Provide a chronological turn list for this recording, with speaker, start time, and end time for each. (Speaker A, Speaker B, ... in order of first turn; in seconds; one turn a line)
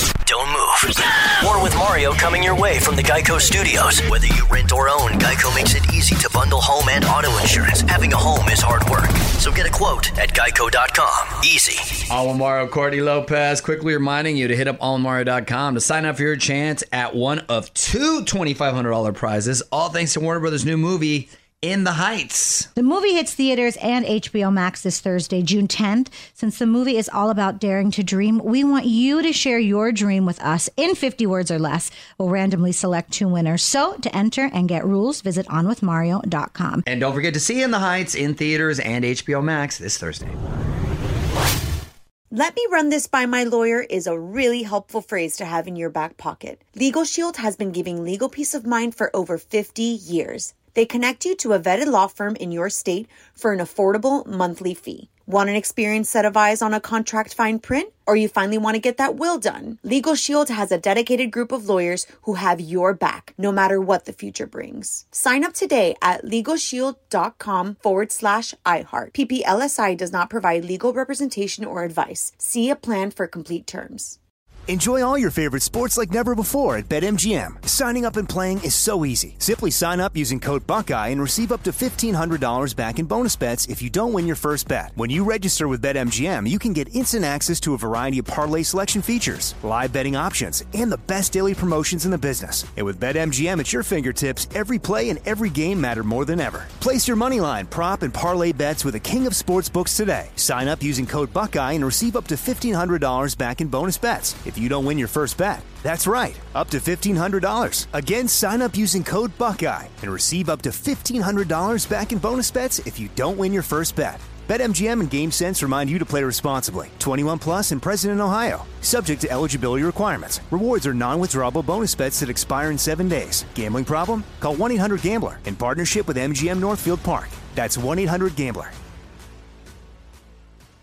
Speaker A: 0.2-11.9
Speaker B: 12.1-22.7
Speaker C: 22.8-36.8
Speaker B: 36.9-40.3
Speaker D: 42.3-74.2
Speaker E: 74.7-128.8